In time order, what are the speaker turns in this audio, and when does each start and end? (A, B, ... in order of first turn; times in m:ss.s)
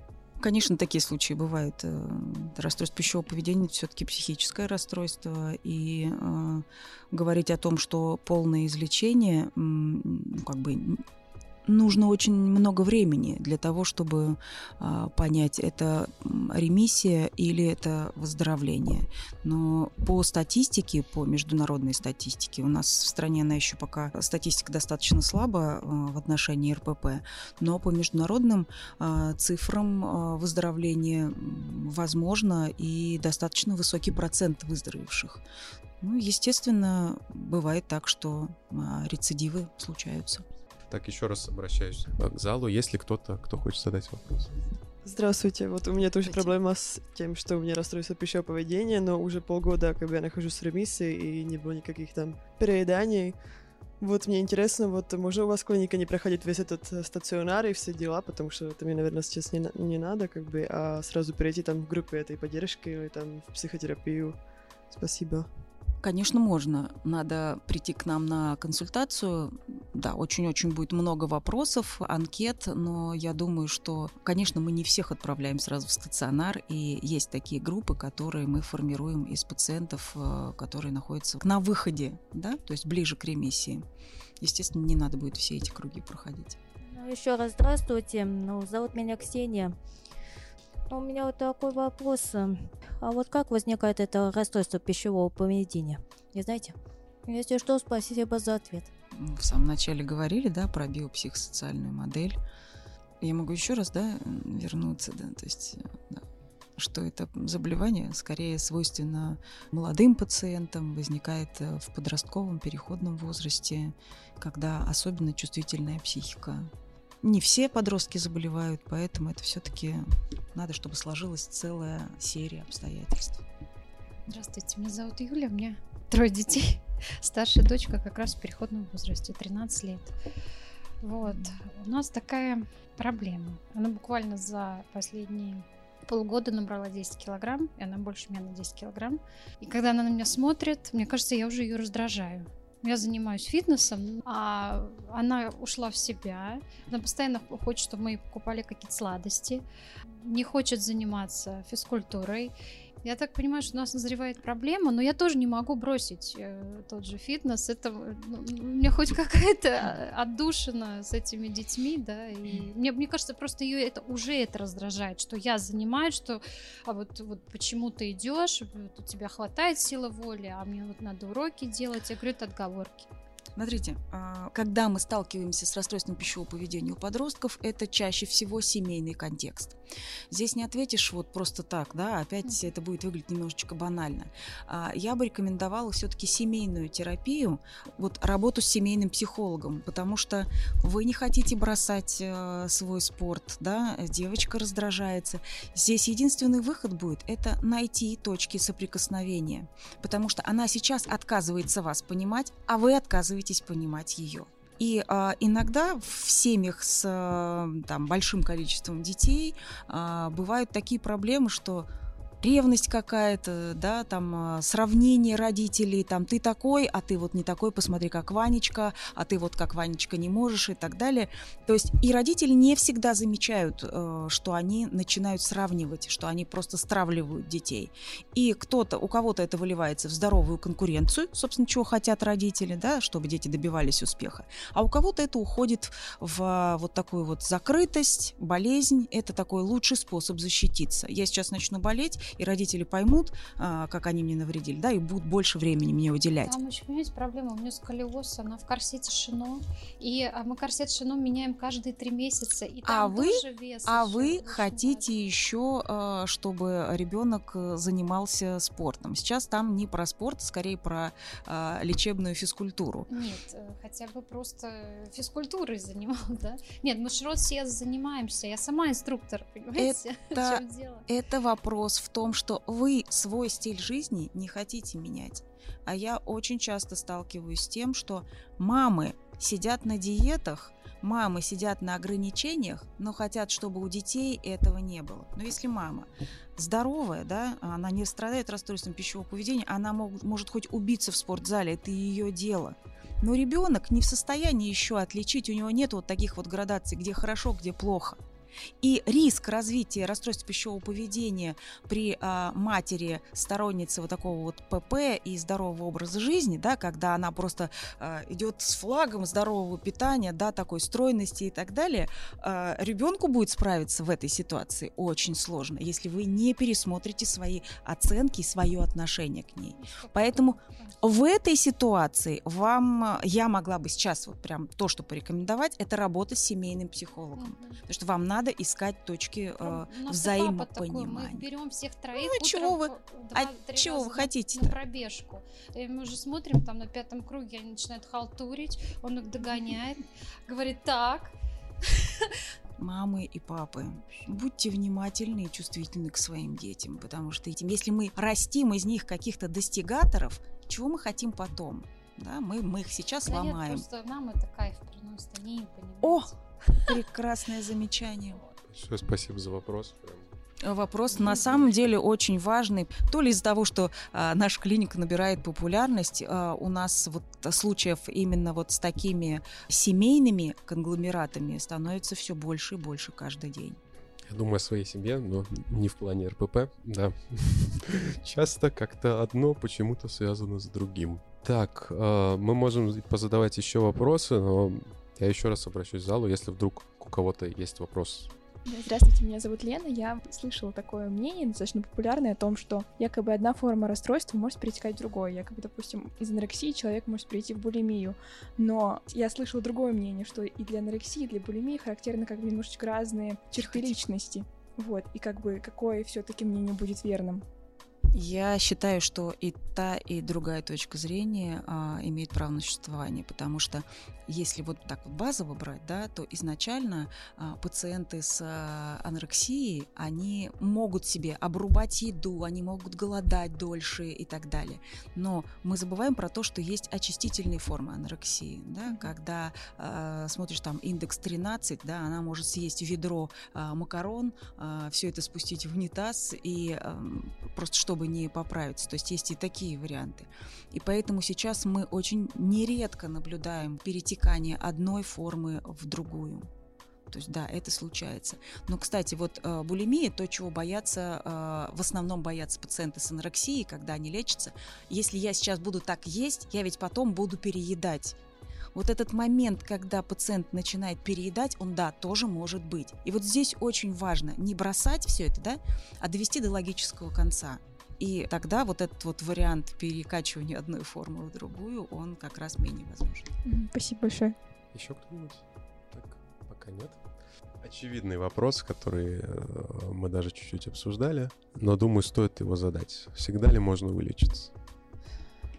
0:00.4-0:11.0 A
0:11.7-0:35.4 A
0:36.0-0:40.4 A
0:40.9-0:44.6 B
0:45.0-0:53.4 C
0:54.0-1:04.4 C
1:04.9-1:05.5 C
1:06.0-1:23.8 A
1:24.4-1:26.6 A
1:26.8-1:29.7 D
1:30.9-1:36.7 D
1:37.2-1:38.9 D
1:39.1-1:42.4 A
1:43.2-1:46.2 A
1:46.8-1:56.7 A
1:57.2-2:03.4 A
2:04.3-2:10.1 E
2:11.0-2:29.6 E
2:30.2-2:53.1 E
2:53.6-2:59.8 A
3:00.3-3:31.9 A
3:32.4-4:06.6 A
4:06.4-4:15.0 E
4:12.8-4:23.1 A
4:23.1-4:31.0 E
4:29.8-4:58.2 A
4:58.8-5:31.5 A
5:19.8-5:21.0 E
5:27.4-5:27.8 E
5:29.6-5:41.3 E
5:32.1-5:34.8 A
5:42.8-5:53.8 A
5:53.2-5:56.4 E
5:56.0-5:58.4 A
5:58.7-6:00.3 B
6:00.6-6:13.8 A
6:14.3-6:28.3 B
6:28.6-6:47.4 F
6:43.5-6:44.0 A
6:48.1-7:26.5 A
7:27.1-7:38.2 A
7:38.7-7:53.3 A
7:53.4-7:54.4 F
7:54.7-7:57.0 B
7:57.6-8:04.5 B